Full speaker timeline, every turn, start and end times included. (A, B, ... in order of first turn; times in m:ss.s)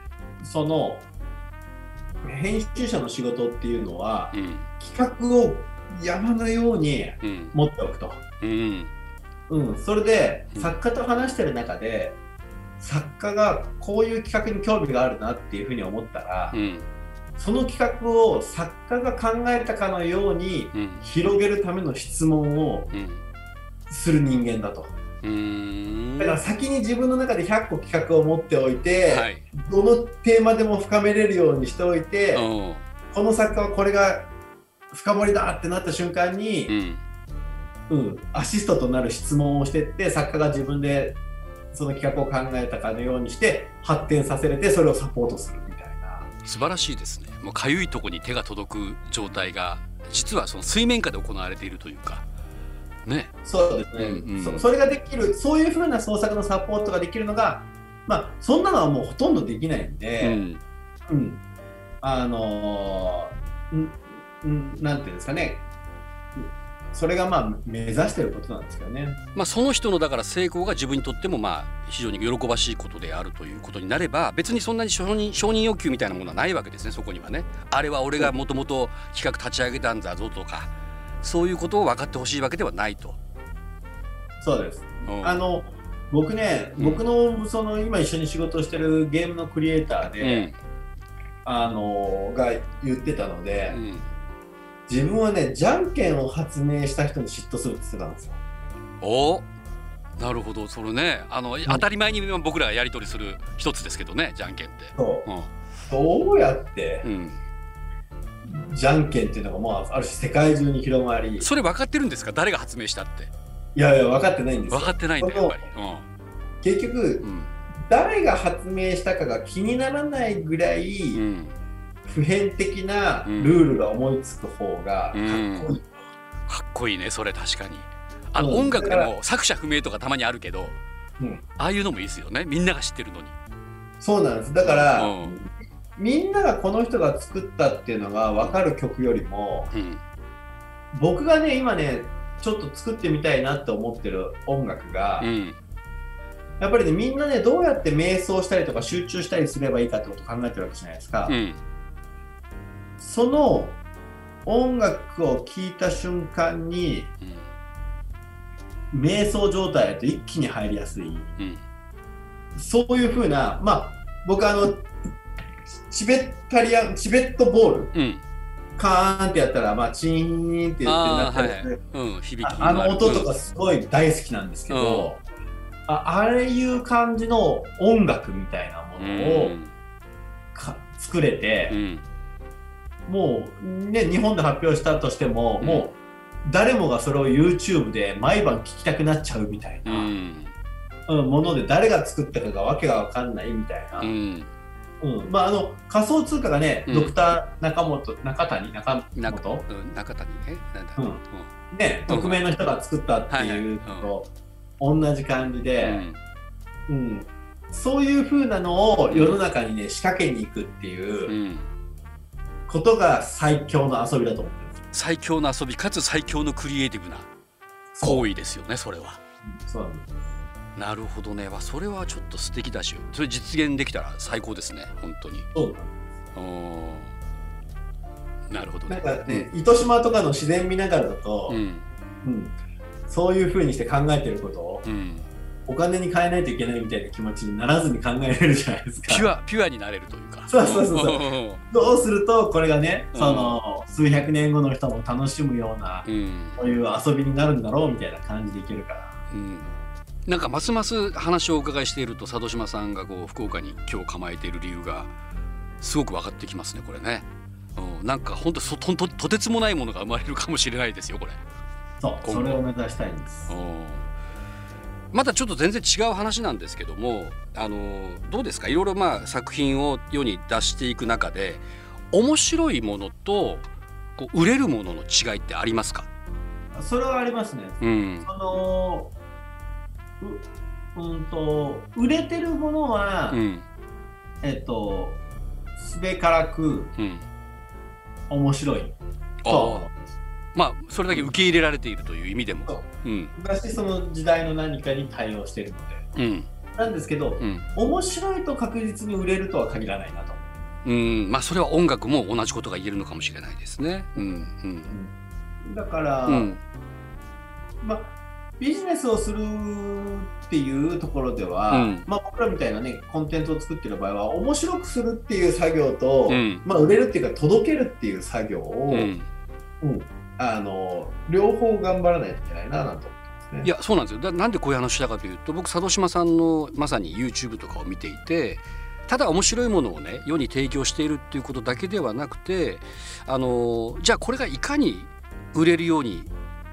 0:00.4-0:01.0 A
0:02.2-0:08.2 A
0:04.3-0:04.7 B
0:07.2-0:07.6 B
0:08.4-0:08.9 B
0:09.5-0:12.2 A
0:12.8-0:16.6 A
0:16.5-0:16.9 B
0:17.4-0:22.9 A
0:20.7-0:21.0 B
0:22.9-0:23.2 B
0:23.9-0:24.9 A
0:25.2-0:26.4 B
0:26.2-0:32.5 A
0:29.1-0:29.4 B
0:32.3-0:32.8 B
0:33.1-0:34.3 A
0:34.9-0:36.7 A
0:36.7-0:37.0 B
0:37.9-0:41.2 A
0:41.7-0:46.3 A
0:46.4-0:52.3 B
0:53.0-0:53.3 B
0:53.4-1:00.4 A
0:54.0-0:54.7 B
1:00.2-1:00.6 B
1:01.1-1:01.4 A
1:02.0-1:05.6 A
1:06.4-1:09.2 A
1:09.4-1:23.2 B
1:24.4-1:30.5 A
1:25.0-1:25.4 B
1:26.8-1:27.0 B
1:30.2-1:30.6 B
1:31.4-1:33.8 A
1:33.7-1:34.1 B
1:34.9-1:38.4 A
1:39.0-1:39.5 B
1:40.2-1:45.5 B
1:45.0-1:45.2 A
1:45.9-1:47.1 A
1:47.0-1:47.4 B
1:48.4-1:51.5 A
1:51.4-1:53.3 B
1:53.8-1:55.6 A
1:54.7-1:56.1 B
1:56.6-1:57.2 A
1:57.2-1:57.5 B
1:57.9-2:01.2 A
2:01.1-2:01.5 B
2:02.1-2:05.9 A
2:03.2-2:03.6 B
2:05.1-2:05.7 B
2:06.5-2:10.8 B
2:08.4-2:09.1 A
2:11.6-2:13.4 B
2:14.0-2:19.7 A
2:14.6-2:15.4 B
2:19.7-2:20.0 B
2:20.9-2:25.3 A
2:25.2-2:25.6 B
2:26.6-2:31.4 A
2:31.3-2:31.6 B
2:33.0-2:33.8 A
2:34.4-2:37.1 A
2:38.9-2:41.3 A
2:41.4-2:41.6 B
2:42.6-2:44.9 A
2:45.8-2:47.9 A
2:47.9-2:48.2 B
2:48.8-2:51.8 A
2:50.8-2:53.3 B
2:52.4-2:55.2 A
2:54.7-2:55.1 B
2:55.9-2:59.6 A
2:59.0-2:59.7 B
3:00.6-3:01.8 A
3:01.7-3:02.0 B
3:03.1-3:05.9 A
3:05.6-3:05.9 B
3:06.4-3:10.1 A
3:09.8-3:10.5 B
3:11.1-3:14.1 A
3:14.0-3:14.5 B
3:15.0-3:19.7 A
3:16.9-3:17.2 B
3:19.2-3:21.5 B
3:21.0-3:24.3 A
3:22.1-3:22.4 B
3:23.3-3:24.1 B
3:24.8-3:26.0 A
3:25.8-3:26.2 B
3:26.9-3:31.3 A
3:29.1-3:29.4 B
3:31.3-3:31.7 B
3:32.7-3:34.8 A
3:34.9-3:37.3 B
3:37.9-3:38.3 A
3:38.0-3:39.2 B
3:39.5-3:40.1 A
3:40.8-3:45.5 B
3:45.5-3:45.9 A
3:46.4-3:47.1 B
3:48.5-3:49.5 B
3:48.9-3:51.6 A
3:51.5-3:51.8 B
3:52.2-3:52.6 A
3:53.1-3:54.8 A
3:54.8-3:55.3 B
3:55.7-3:59.3 A
3:59.1-4:01.6 B
4:00.5-4:09.2 A
4:03.1-4:03.6 B
4:06.1-4:06.6 B
4:09.3-4:09.7 B
4:10.3-4:15.1 B
4:15.8-4:21.4 B
4:22.0-4:23.5 A
4:22.2-4:22.5 B
4:23.5-4:24.1 B
4:25.1-4:33.6 B
4:34.2-4:36.1 B
4:36.8-4:39.1 A
4:37.8-4:38.3 B
4:40.2-4:43.4 A
4:43.3-4:43.6 B
4:44.4-4:45.2 A
4:45.8-4:46.9 A
4:47.0-4:47.2 B
4:48.3-4:49.0 A
4:49.4-4:49.9 B
4:49.5-4:50.0 A
4:50.6-4:53.3 B
4:53.4-4:56.1 A
4:56.2-4:56.5 B
4:56.8-5:00.4 A
4:57.4-4:57.7 B
5:00.8-5:04.9 B
5:05.6-5:06.6 A
5:06.3-5:06.6 B
5:07.8-5:19.1 A
5:11.7-5:12.0 B
5:16.3-5:16.6 B
5:18.9-5:19.3 B
5:19.8-5:23.7 A
5:23.6-5:36.3 B